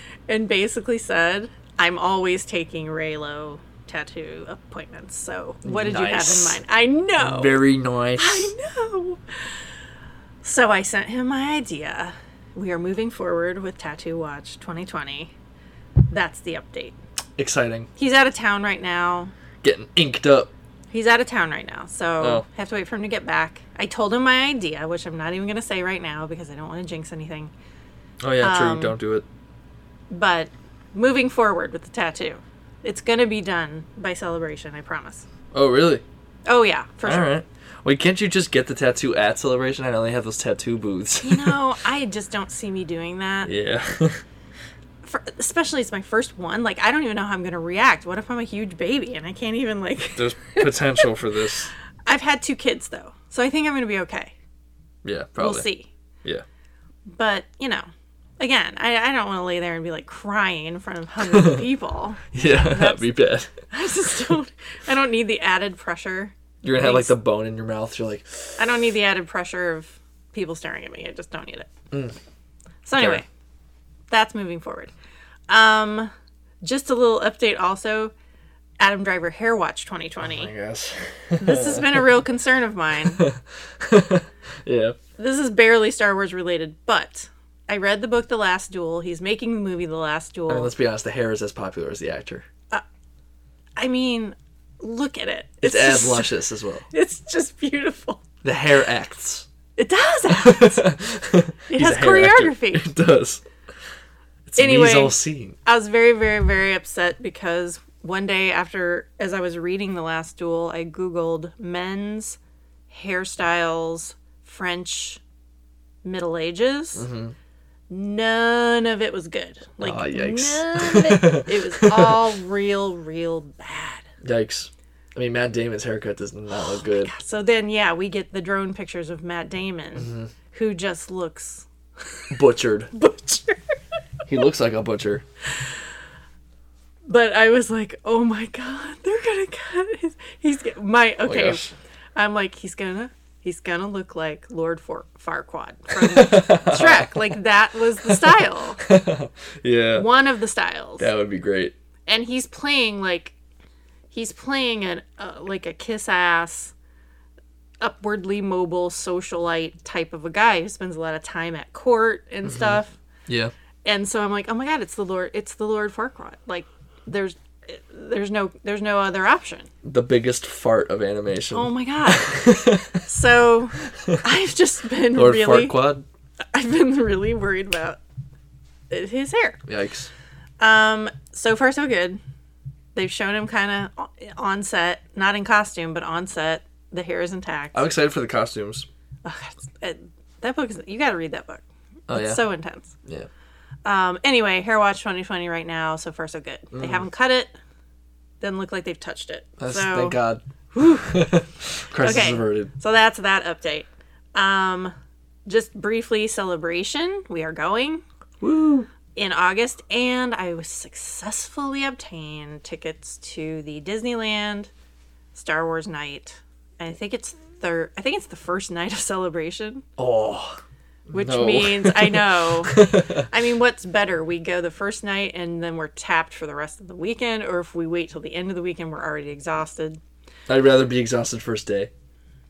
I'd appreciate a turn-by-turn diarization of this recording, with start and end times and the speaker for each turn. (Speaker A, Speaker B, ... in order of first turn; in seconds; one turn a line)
Speaker A: 0.3-7.6
Speaker B: 5.6-6.6
Speaker B: 7.2-8.5
Speaker A: 8.2-9.2
Speaker A: 10.4-15.3
Speaker A: 16.1-17.0
Speaker B: 17.4-17.9
Speaker A: 17.9-19.3
Speaker B: 19.6-20.5
Speaker A: 20.9-27.5
Speaker B: 28.2-29.2
Speaker A: 28.4-28.9
Speaker A: 30.1-35.2
Speaker B: 35.5-36.0
Speaker A: 36.5-37.3
Speaker B: 37.0-41.6
Speaker A: 41.2-43.5
Speaker B: 43.4-44.2
Speaker A: 45.0-51.1
Speaker B: 50.1-51.7
Speaker A: 52.0-54.3
Speaker B: 55.0-55.6
Speaker A: 55.4-55.9
Speaker A: 57.1-57.9
Speaker A: 58.4-63.1
Speaker B: 61.3-61.6
Speaker B: 62.3-63.5
Speaker A: 63.6-67.1
Speaker B: 66.6-68.6
Speaker A: 68.6-71.7
Speaker A: 72.8-73.2
Speaker B: 73.0-73.2
Speaker A: 74.1-74.9
Speaker A: 75.5-76.1
Speaker A: 76.6-78.1
Speaker A: 78.8-80.5
Speaker B: 80.2-82.1
Speaker A: 81.4-83.2
Speaker B: 83.1-85.0
Speaker A: 85.2-90.7
Speaker B: 90.5-92.4
Speaker A: 93.8-96.3
Speaker B: 95.6-96.8
Speaker A: 96.9-98.2
Speaker B: 98.4-99.5
Speaker A: 99.8-100.8
Speaker B: 100.3-103.4
Speaker A: 101.7-102.9
Speaker B: 104.5-105.5
Speaker A: 104.6-112.4
Speaker A: 112.9-115.2
Speaker A: 116.0-117.1
Speaker B: 117.0-117.3
Speaker A: 117.9-124.1
Speaker B: 119.8-122.2
Speaker B: 124.2-127.1
Speaker A: 126.5-132.3
Speaker B: 130.0-130.3
Speaker B: 132.3-132.9
Speaker A: 132.9-133.6
Speaker B: 134.3-135.2
Speaker A: 137.1-148.8
Speaker B: 141.2-141.7
Speaker B: 146.0-147.3
Speaker B: 148.0-150.1
Speaker A: 149.9-151.1
Speaker B: 151.0-151.7
Speaker A: 152.1-153.3
Speaker A: 154.1-156.7
Speaker A: 157.8-162.9
Speaker B: 162.4-163.5
Speaker A: 163.8-169.7
Speaker B: 169.8-173.0
Speaker A: 171.5-175.8
Speaker B: 175.1-176.0
Speaker A: 176.5-178.0
Speaker A: 178.9-179.6
Speaker B: 179.7-180.1
Speaker A: 180.6-182.2
Speaker A: 182.9-187.8
Speaker B: 187.7-188.9
Speaker A: 189.2-192.9
Speaker B: 192.1-192.4
Speaker A: 193.8-197.5
Speaker B: 196.7-197.1
Speaker A: 198.4-200.2
Speaker B: 199.6-200.4
Speaker A: 200.7-201.2
Speaker B: 201.0-202.7
Speaker A: 202.0-204.9
Speaker A: 205.4-208.0
Speaker B: 208.4-208.9
Speaker A: 209.1-214.7
Speaker A: 215.3-219.8
Speaker B: 220.0-223.3
Speaker A: 221.1-230.0
Speaker B: 230.5-231.9